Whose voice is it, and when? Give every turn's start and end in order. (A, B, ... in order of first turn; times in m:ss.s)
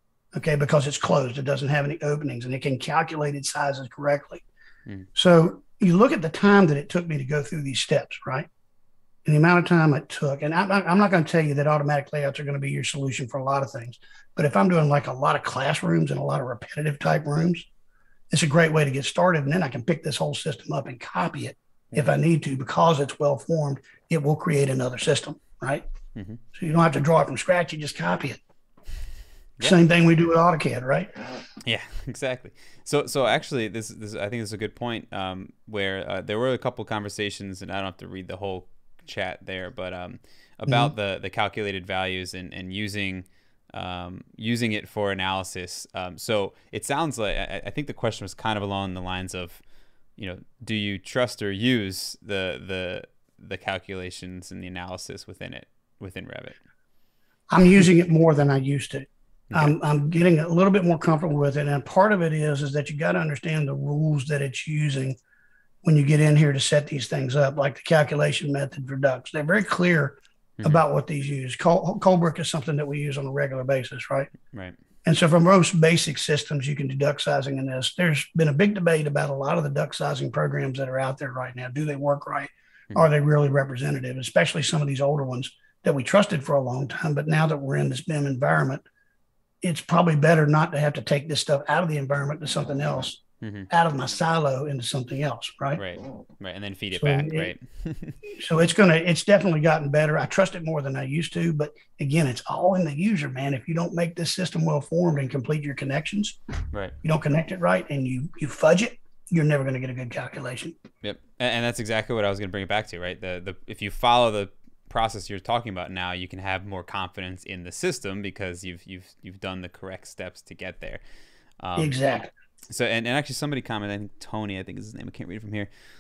0:00.3-0:04.4 A
0:05.2-0:08.5 A
0:09.2-0:17.7 A
0:18.3-0:25.8 A
0:26.2-0:26.4 B
0:26.5-0:28.4 A
0:29.6-0:31.4 A
0:31.6-0:49.6 B
0:50.2-0:56.6 B
0:57.5-1:05.2 A
0:59.5-0:59.8 B
1:05.8-1:14.3 A
1:14.5-1:14.8 B
1:15.0-1:28.8 A
1:29.6-1:35.8 A
1:33.4-1:33.7 B
1:35.8-1:38.3 B
1:37.0-1:37.5 A
1:38.3-1:46.4 A
1:47.0-1:50.8 A
1:51.0-2:01.0 B
2:01.6-2:02.0 B
2:01.8-2:02.3 A
2:02.7-2:05.7 B